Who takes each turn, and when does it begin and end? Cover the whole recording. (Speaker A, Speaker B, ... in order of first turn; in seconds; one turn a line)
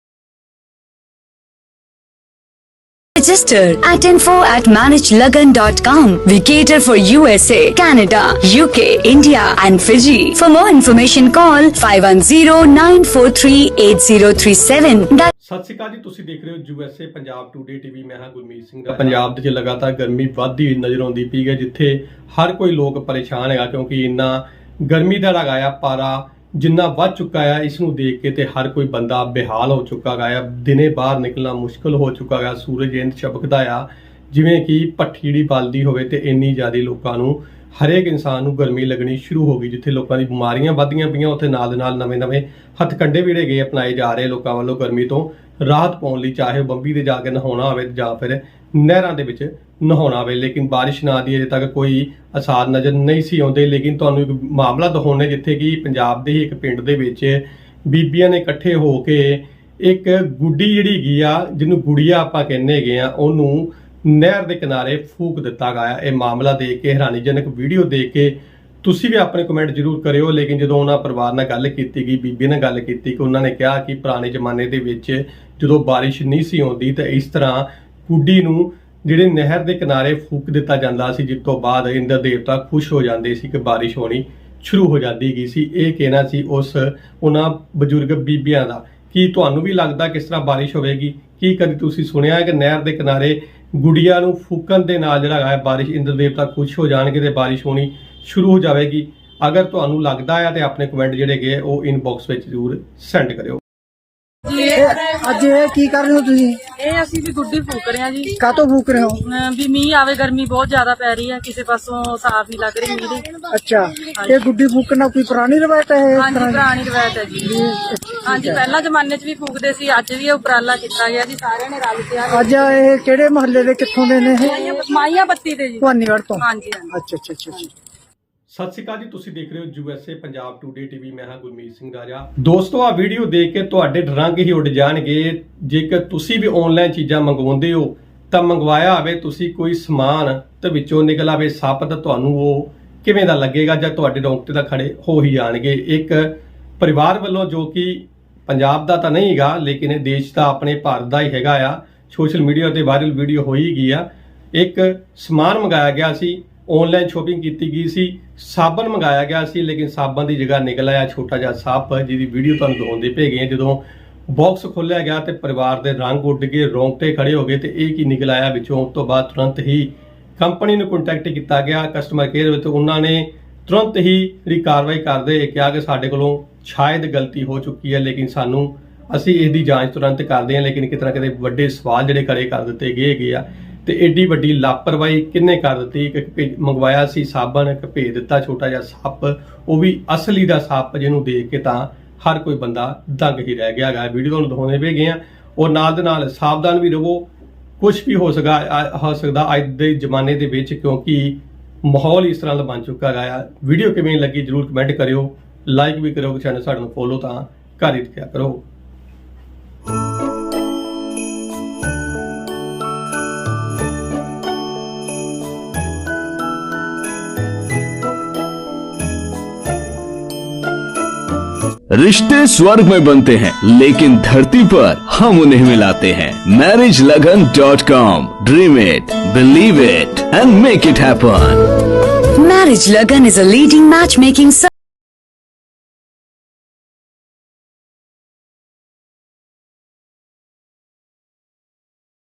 Speaker A: 3.2-15.3
Speaker B: 15.4-103.6
Speaker C: 104.5-105.2
Speaker D: 104.8-106.6
Speaker C: 106.8-108.3
Speaker D: 108.4-109.2
Speaker C: 109.2-113.3
Speaker D: 113.5-116.7
Speaker C: 114.2-114.5
Speaker C: 116.2-117.6
Speaker D: 117.5-118.6
Speaker C: 118.1-122.8
Speaker D: 122.3-124.6
Speaker C: 124.4-126.9
Speaker D: 125.8-127.7
Speaker B: 128.5-197.3
Speaker B: 197.8-208.6
Speaker E: 221.9-231.7
Speaker A: 232.4-234.7